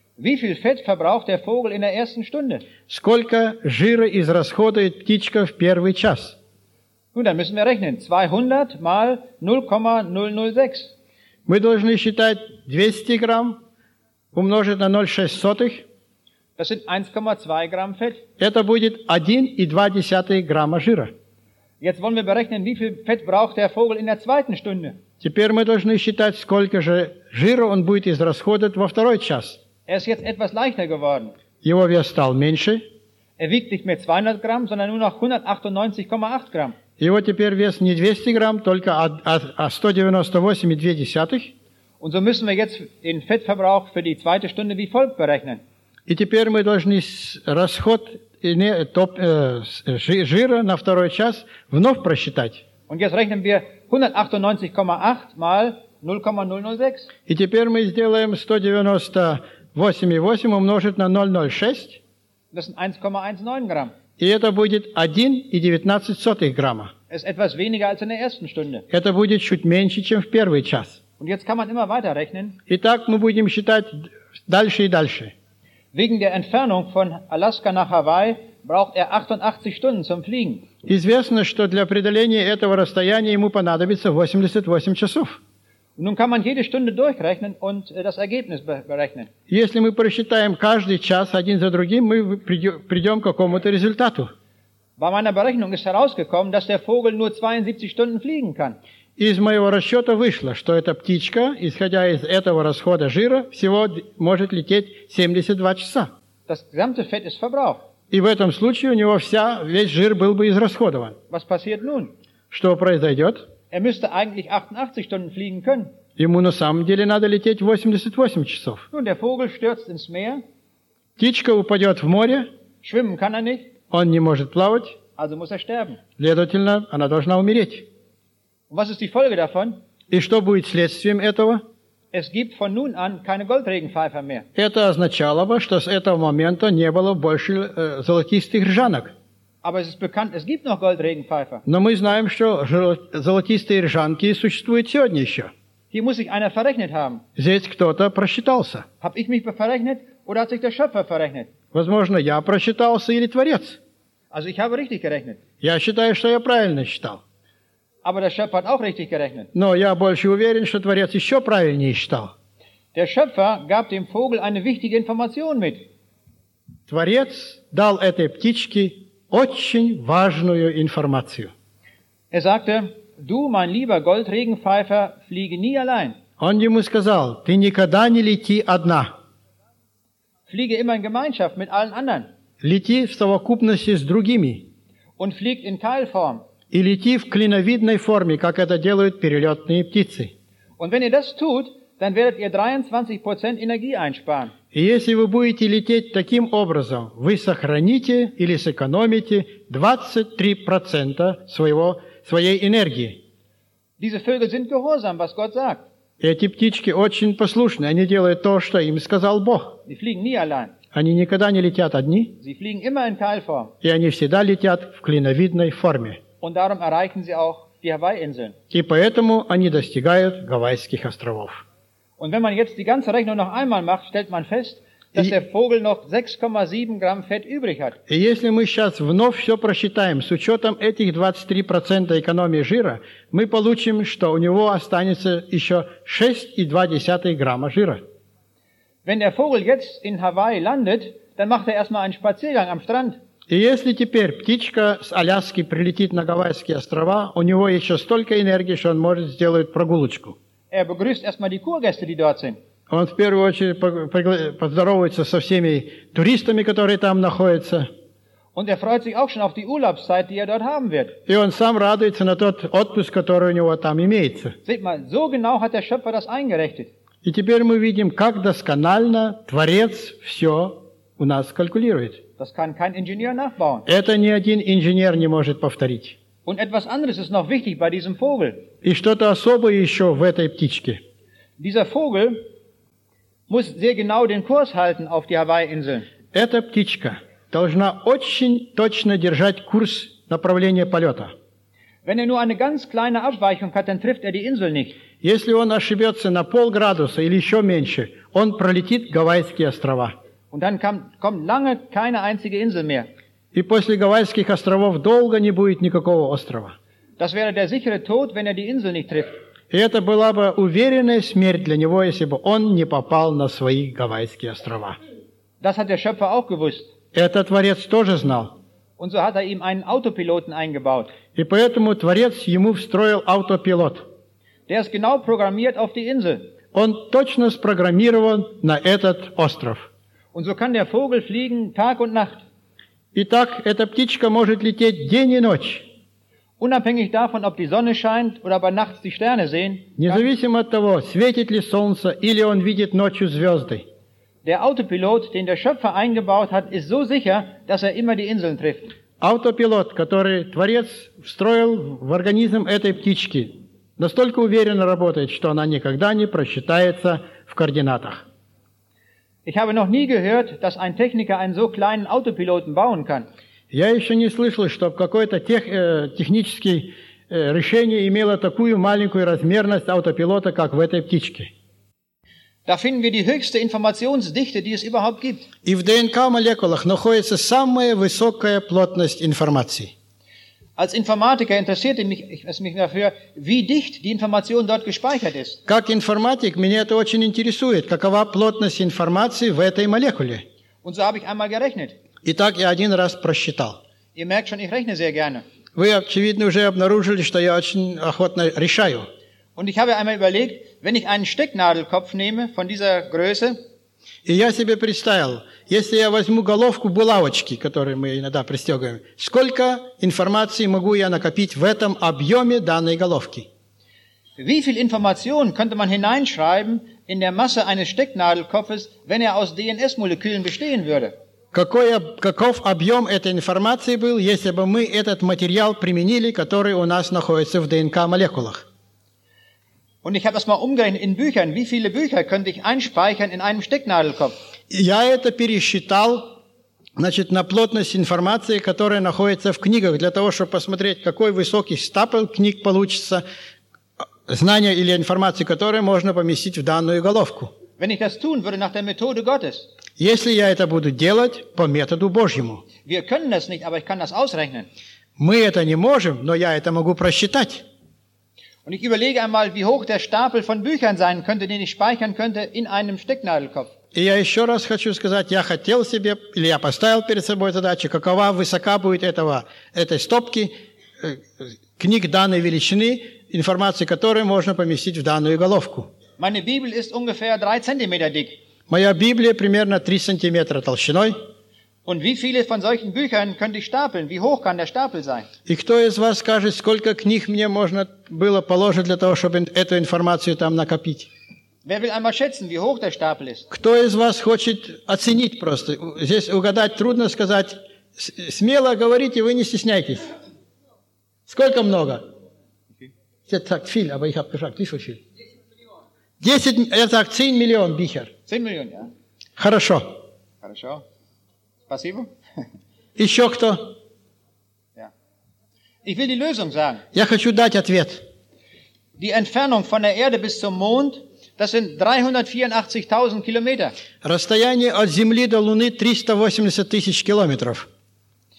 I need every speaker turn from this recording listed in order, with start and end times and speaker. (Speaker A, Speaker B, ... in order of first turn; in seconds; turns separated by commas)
Speaker A: 0.2-2.7, Speaker B: 2.9-6.4, Speaker A: 7.1-10.9, Speaker B: 11.5-13.6, Speaker B: 14.3-15.9, Speaker A: 16.6-18.2, Speaker B: 18.4-21.1, Speaker A: 21.8-25.0, Speaker B: 25.2-29.6, Speaker A: 29.9-31.4, Speaker B: 31.6-32.8, Speaker A: 33.4-36.8, Speaker B: 37.0-41.5, Speaker A: 42.0-45.6, Speaker B: 46.1-52.6, Speaker A: 52.9-57.1, Speaker B: 57.3-62.0, Speaker A: 62.5-63.9, Speaker B: 64.2-66.9, Speaker A: 67.1-68.8, Speaker B: 68.9-71.0, Speaker A: 71.2-72.6, Speaker B: 72.7-75.3, Speaker A: 75.9-80.7, Speaker B: 80.8-85.4, Speaker A: 86.0-89.3, Speaker B: 89.5-94.3, Speaker A: 95.0-98.8, Speaker B: 99.2-106.1, Speaker A: 106.5-107.8, Speaker B: 108.1-111.2, Speaker A: 111.3-112.1, Speaker B: 112.5-113.5, Speaker A: 113.7-115.9, Speaker B: 116.2-118.8, Speaker A: 118.9-120.4, Speaker B: 121.2-122.5, Speaker A: 122.8-123.7, Speaker B: 123.9-125.0, Speaker A: 125.2-126.0, Speaker B: 126.2-127.9, Speaker A: 128.7-129.8, Speaker B: 130.1-131.6, Speaker A: 132.1-134.5, Speaker B: 134.6-139.1, Speaker A: 139.6-141.6, Speaker B: 141.7-145.5, Speaker A: 145.9-147.2, Speaker B: 147.4-148.9, Speaker A: 149.0-151.5, Speaker B: 151.7-153.8, Speaker A: 154.3-155.4, Speaker B: 155.6-157.2, Speaker A: 158.0-159.5, Speaker B: 159.5-162.3, Speaker A: 162.9-165.9, Speaker B: 166.9-171.5, Speaker A: 172.3-176.2, Speaker B: 176.4-179.1, Speaker A: 180.5-182.3, Speaker B: 182.6-184.7, Speaker A: 185.2-186.4, Speaker B: 186.7-190.3, Speaker A: 190.8-194.5, Speaker B: 194.7-203.2, Speaker A: 204.0-205.8, Speaker B: 206.2-209.8, Speaker A: 209.9-210.7, Speaker B: 210.9-212.4, Speaker A: 212.4-213.7, Speaker B: 213.8-216.2, Speaker A: 216.4-218.6, Speaker B: 218.7-221.6, Speaker A: 222.2-228.0, Speaker B: 228.1-238.0, Speaker A: 239.1-243.2, Speaker B: 243.5-250.4, Speaker A: 250.7-252.6, Speaker B: 252.9-257.9, Speaker A: 258.6-261.2, Speaker B: 261.3-264.6, Speaker A: 264.7-266.9, Speaker B: 267.2-272.2, Speaker A: 272.4-273.9, Speaker B: 273.9-276.2, Speaker A: 276.5-278.7, Speaker B: 278.8-281.0, Speaker A: 281.6-282.4, Speaker A: 283.5-286.1, Speaker B: 286.3-291.3, Speaker A: 292.1-295.0, Speaker B: 295.2-300.1, Speaker A: 300.5-303.1, Speaker B: 303.5-306.8, Speaker A: 307.2-309.3, Speaker B: 309.7-315.0, Speaker A: 315.6-316.9, Speaker B: 317.1-318.6, Speaker A: 319.0-321.1, Speaker B: 321.4-324.0, Speaker A: 324.7-326.5, Speaker B: 326.7-329.9, Speaker A: 330.3-332.4, Speaker B: 333.1-335.9, Speaker A: 336.6-340.3, Speaker B: 340.0-343.9, Speaker A: 344.4-348.9, Speaker B: 349.2-358.2, Speaker A: 359.5-363.3, Speaker B: 363.7-371.5, Speaker A: 372.7-375.5, Speaker B: 375.6-379.9, Speaker A: 380.8-385.6, Speaker B: 385.7-390.4, Speaker A: 390.8-392.0, Speaker B: 392.2-393.8, Speaker A: 394.1-395.4, Speaker B: 395.8-399.1, Speaker A: 399.6-403.6, Speaker B: 404.2-413.5, Speaker A: 414.4-421.1, Speaker B: 421.5-428.7, Speaker A: 430.0-434.3, Speaker B: 434.7-436.4, Speaker B: 437.0-443.2, Speaker B: 444.3-447.5, Speaker A: 447.8-449.7, Speaker B: 450.0-452.7, Speaker A: 452.9-454.7, Speaker B: 455.2-457.6, Speaker A: 458.7-463.7, Speaker B: 463.9-475.9, Speaker A: 476.2-478.4, Speaker B: 478.7-481.2, Speaker A: 481.9-485.3, Speaker B: 485.5-491.1, Speaker A: 491.6-493.5, Speaker B: 493.5-500.1, Speaker B: 501.3-502.0, Speaker B: 503.3-505.0, Speaker B: 506.2-508.1, Speaker A: 508.3-508.9, Speaker B: 509.4-510.0, Speaker A: 510.4-510.8, Speaker A: 511.7-512.1, Speaker B: 513.0-513.8, Speaker A: 515.9-516.8, Speaker B: 516.9-518.0, Speaker A: 519.0-523.7, Speaker B: 524.0-527.7